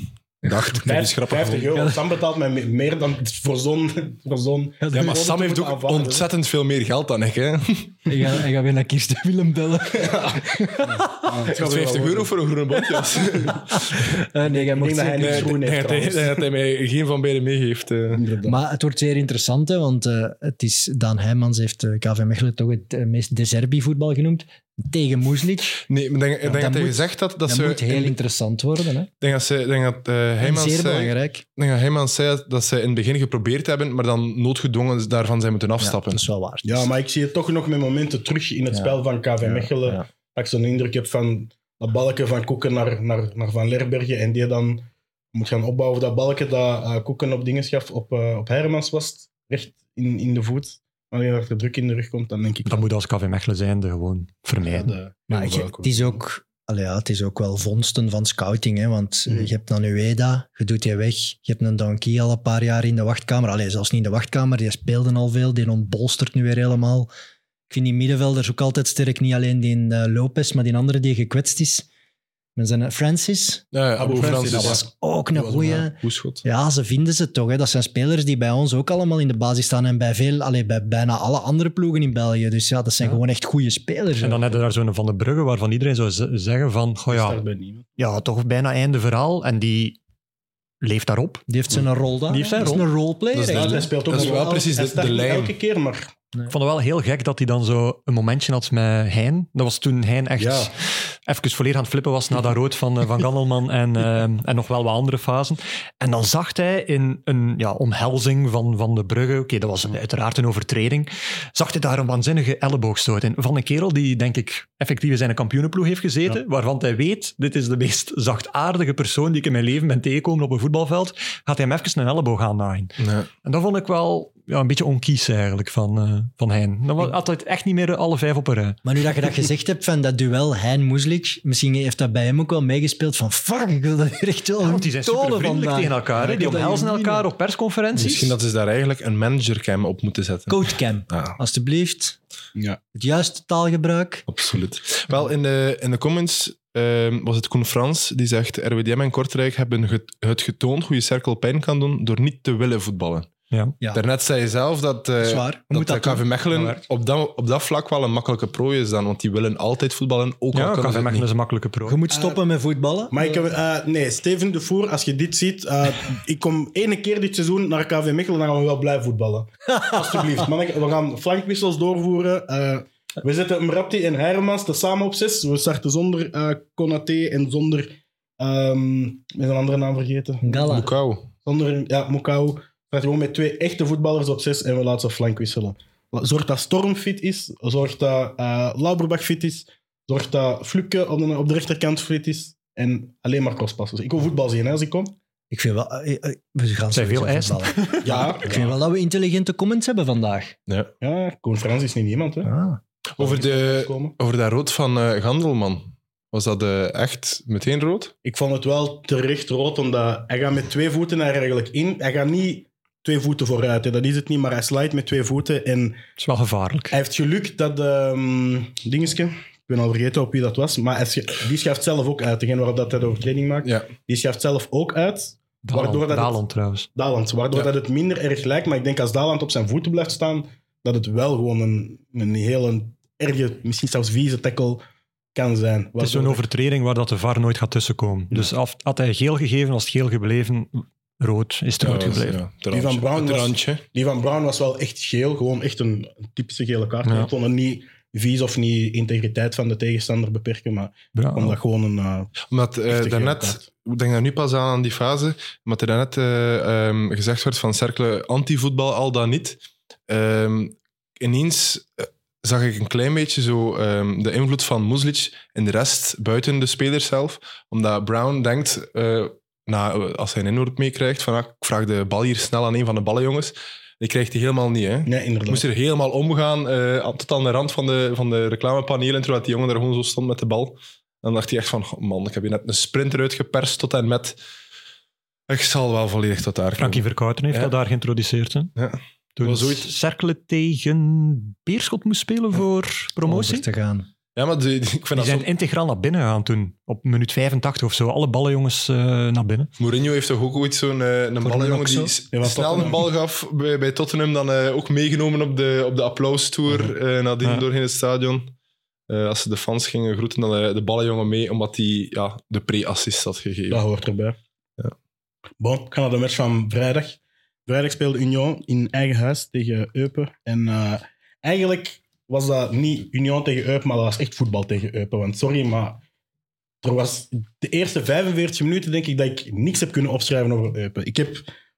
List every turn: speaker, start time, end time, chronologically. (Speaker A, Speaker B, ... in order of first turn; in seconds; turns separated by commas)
Speaker A: 0.4-1.7, Speaker B: 0.5-0.8, Speaker C: 0.8-6.3, Speaker B: 1.7-2.0, Speaker B: 4.8-5.2, Speaker A: 4.9-8.0, Speaker B: 8.1-11.5, Speaker C: 9.9-12.3, Speaker A: 11.5-14.1, Speaker C: 13.1-13.6, Speaker B: 13.5-15.5, Speaker C: 14.5-16.4, Speaker A: 15.2-18.2, Speaker C: 18.1-18.6, Speaker B: 18.4-25.8, Speaker A: 25.9-28.2, Speaker B: 26.4-29.1, Speaker A: 29.2-36.2, Speaker B: 30.4-31.4, Speaker B: 35.8-36.9, Speaker C: 36.6-52.9, Speaker B: 38.7-40.0, Speaker D: 52.6-54.9, Speaker C: 54.6-56.2, Speaker B: 55.3-67.1, Speaker B: 67.7-71.8, Speaker B: 72.5-84.4, Speaker A: 73.7-74.8, Speaker C: 74.0-75.8, Speaker A: 75.6-76.4, Speaker D: 84.2-87.4, Speaker C: 87.1-87.9, Speaker D: 88.0-90.0, Speaker D: 90.8-91.5, Speaker B: 91.5-93.9, Speaker D: 92.3-92.9, Speaker A: 93.3-95.5, Speaker C: 93.4-96.1, Speaker D: 96.5-128.8, Speaker C: 100.4-100.7, Speaker A: 123.0-123.3, Speaker B: 128.8-137.3, Speaker D: 134.6-138.3, Speaker A: 137.9-141.3, Speaker B: 140.5-142.2, Speaker B: 142.9-144.3, Speaker A: 144.3-153.3, Speaker A: 153.9-161.3, Speaker B: 155.2-156.2, Speaker D: 156.5-156.8, Speaker D: 160.5-162.0, Speaker B: 161.8-163.4, Speaker C: 162.1-162.4, Speaker C: 163.1-180.9, Speaker B: 169.7-170.2, Speaker B: 180.4-180.9, Speaker A: 180.7-181.3, Speaker C: 181.4-195.1, Speaker B: 195.5-200.5, Speaker D: 196.9-198.3, Speaker C: 198.0-198.7, Speaker C: 201.0-202.5, Speaker B: 202.4-202.8, Speaker A: 203.2-208.1, Speaker C: 203.2-204.2, Speaker C: 208.2-216.0, Speaker D: 216.2-216.9, Speaker C: 216.9-226.4, Speaker A: 223.6-223.9, Speaker D: 225.6-226.9, Speaker C: 226.9-234.8, Speaker C: 235.3-236.4, Speaker D: 236.0-242.4, Speaker A: 241.8-243.8, Speaker C: 242.7-252.3, Speaker D: 247.0-247.3, Speaker D: 251.1-251.6, Speaker A: 252.5-284.4, Speaker C: 252.9-253.7, Speaker C: 275.1-275.6, Speaker A: 285.5-287.7, Speaker D: 286.8-288.7, Speaker A: 288.7-289.9, Speaker D: 289.4-293.6, Speaker B: 293.2-294.1, Speaker A: 294.3-295.5, Speaker D: 295.1-299.7, Speaker A: 299.8-308.5, Speaker B: 301.4-302.1, Speaker C: 302.3-303.0, Speaker A: 309.1-313.8, Speaker C: 313.7-314.4, Speaker C: 315.6-326.0, Speaker C: 326.8-331.4